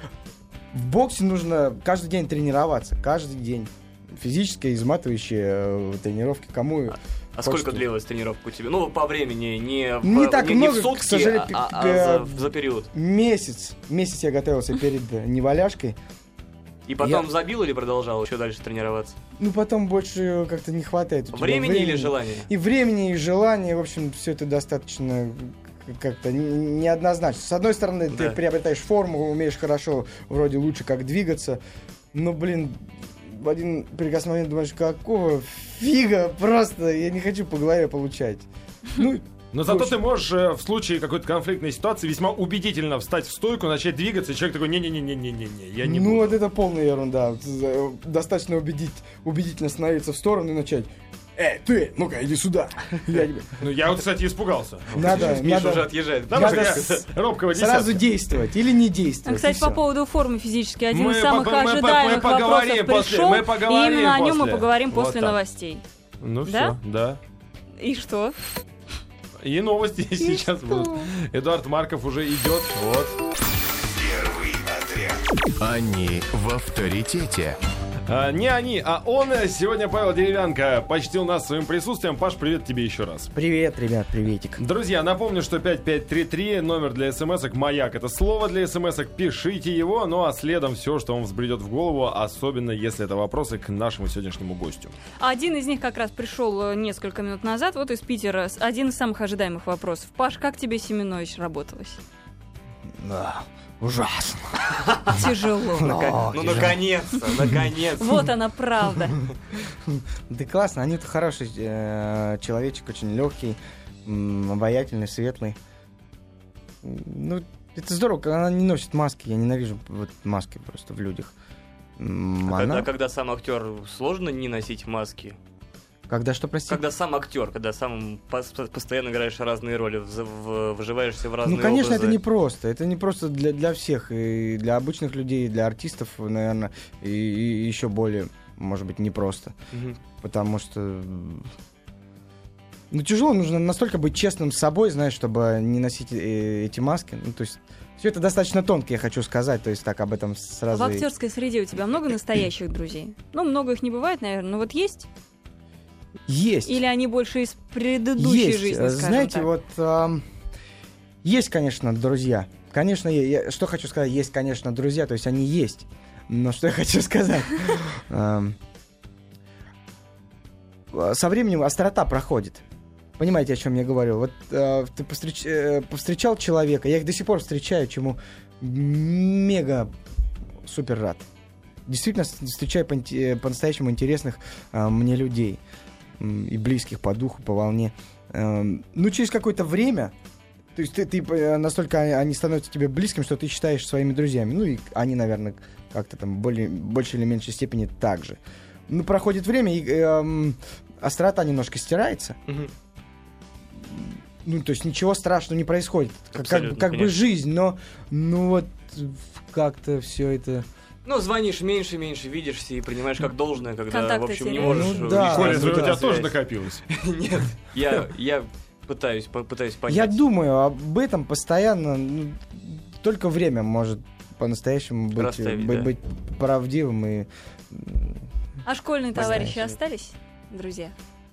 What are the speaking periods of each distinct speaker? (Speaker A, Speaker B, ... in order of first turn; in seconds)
Speaker A: 0.7-7.9, 10.0-16.0, 17.0-17.3, 19.4-31.6, 32.1-40.0, 45.8-53.6, 55.0-59.8, 83.3-84.6, 102.9-104.9, 105.6-107.7, 109.6-115.6, 116.8-121.3, 122.0-122.9, 126.1-126.8, 131.4-139.6, 140.2-141.5, 142.9-151.1, 156.3-156.8, 158.2-160.2, 161.2-168.6, 170.9-172.6, 173.2-179.9, 180.6-181.3, 181.9-185.6, 186.2-190.1, 190.8-202.4, 203.8-210.7, 214.6-216.1, 219.9-228.2, 229.1-229.8
Speaker B: 7.3-12.9, 16.9-19.2, 21.3-22.5, 28.1-28.4, 54.9-57.1, 104.8-105.3, 105.8-108.3, 122.5-125.4, 126.7-132.2, 139.7-140.0, 202.5-202.7, 206.3-207.1, 211.1-216.3, 216.9-220.2, 225.2-225.9
Speaker C: 39.5-46.4, 53.6-55.4, 56.3-58.0, 60.9-65.4, 66.2-67.2, 69.4-73.2, 78.1-83.3, 84.6-94.9, 215.0-216.8
Speaker D: 59.3-65.8, 66.5-66.8, 67.8-68.3, 70.2-71.1, 95.2-102.0, 105.1-106.0, 108.0-109.2, 150.7-155.1, 156.7-159.5, 213.9-215.1, 228.7-230.9
Speaker E: 74.1-75.1, 75.6-77.6